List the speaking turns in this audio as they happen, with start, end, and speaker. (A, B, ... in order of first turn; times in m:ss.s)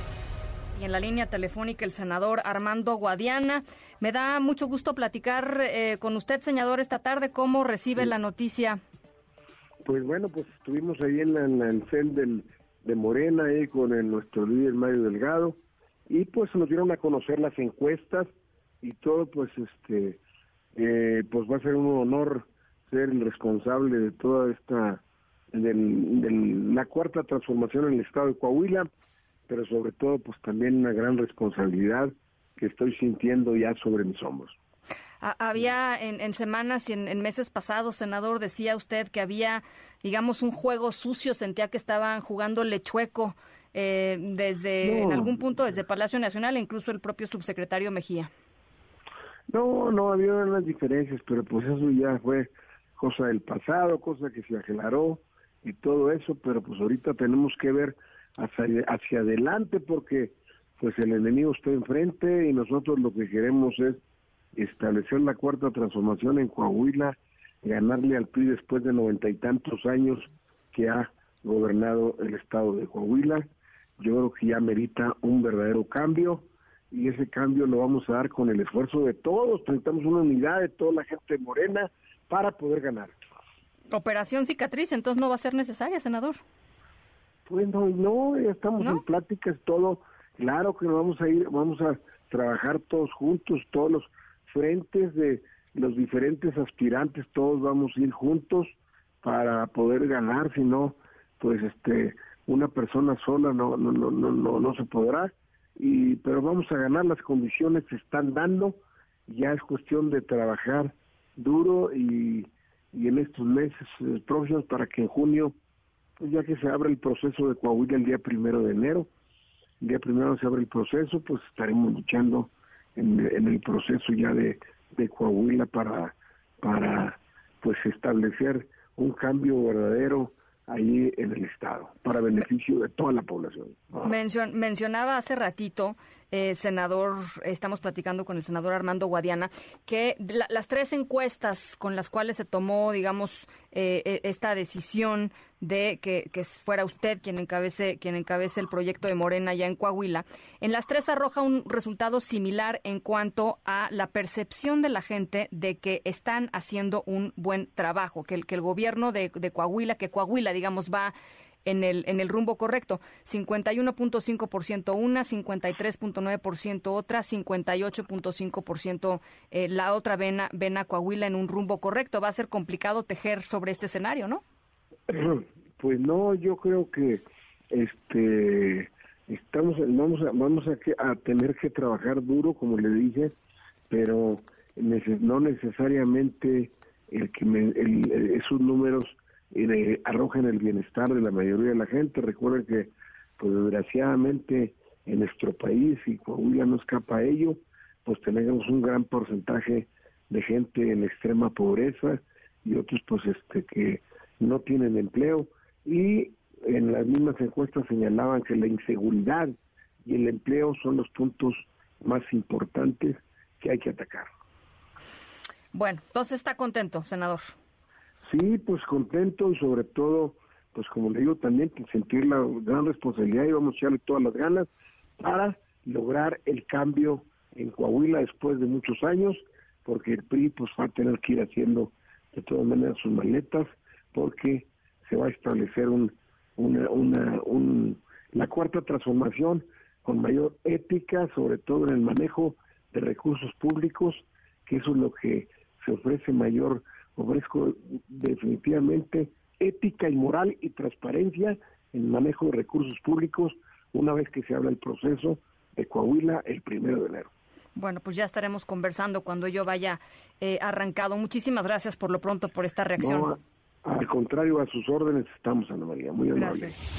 0:00.7-0:08.8 A
0:09.8-0:18.3 B
0:18.8-0:20.2 B
0:20.8-0:28.9 B
0:29.5-0:34.6 B
0:35.2-0:48.3 A
0:44.8-0:45.4 B
0:49.5-1:04.0 B
1:04.6-1:23.2 B
1:23.9-1:26.4 A
1:27.5-1:55.5 B
1:56.2-1:59.1 B
1:59.8-2:14.1 B
2:14.0-2:41.1 A
2:41.6-2:54.4 A
2:55.1-3:03.3 B
3:03.9-3:34.3 B
3:35.7-3:37.6 A
3:38.2-4:17.3 B
4:17.8-4:23.3 A
4:23.0-4:26.8 B
4:26.3-4:26.8 A